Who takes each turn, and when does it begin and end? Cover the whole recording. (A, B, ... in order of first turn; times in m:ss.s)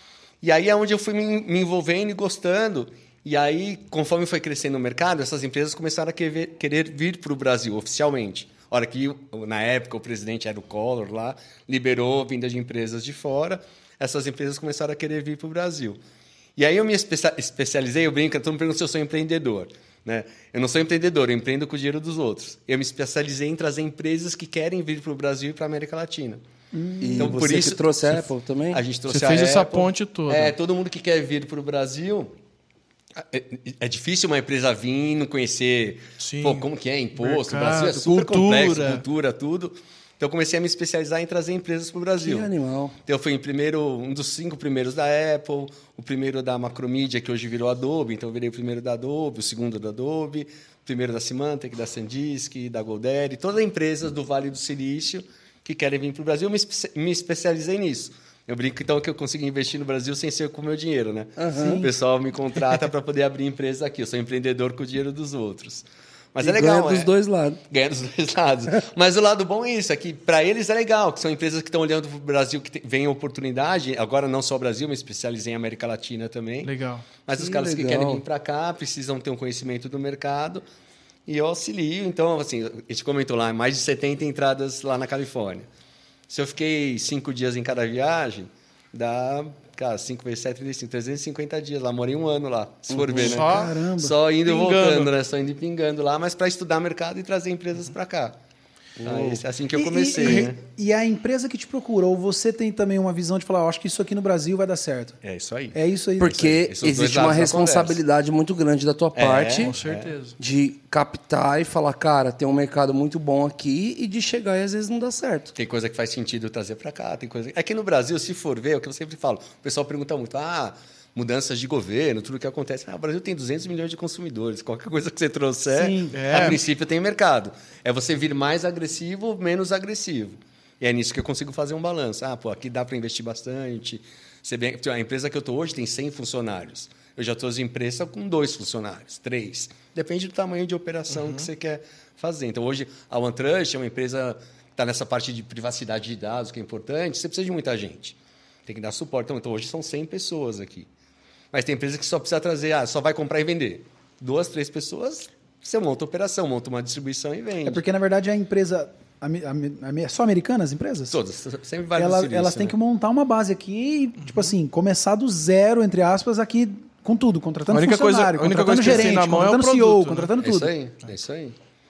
0:00.4-0:16.0 A
0:16.6-0:26.4 A
0:26.7-0:27.4 B
0:27.0-0:28.8 C
0:27.2-0:32.3 A
0:29.1-0:30.5 D
0:33.2-0:42.5 A
0:36.2-0:39.0 D
0:42.2-0:43.0 C
0:43.1-1:07.1 A
1:01.4-1:01.9 C
1:01.6-1:01.9 B
1:06.4-1:07.6 C
1:07.7-1:16.7 A
1:16.6-1:17.0 D
1:17.3-1:20.6 A
1:17.4-1:18.2 C
1:21.3-1:25.7 A
1:26.3-1:38.4 A
1:32.9-1:33.2 C
1:33.2-1:33.8 D
1:33.2-1:34.1 B
1:34.4-1:35.1 D
1:39.0-1:39.4 C
1:39.0-1:40.6 A
1:39.8-1:45.2 B
1:45.2-1:48.0 A
1:45.7-1:46.4 B
1:46.2-1:49.7 C
1:49.2-1:50.1 A
1:49.6-1:50.4 D
1:50.4-1:55.5 C
1:55.5-2:30.9 A
2:05.7-2:06.1 B
2:06.1-2:06.6 D
2:21.2-2:21.4 D
2:31.5-2:37.8 A
2:37.6-2:41.1 B
2:41.1-2:42.8 A
2:42.0-2:50.7 B
2:44.2-2:44.5 D
2:47.7-2:50.3 D
2:48.8-2:49.2 A
2:50.4-2:51.6 A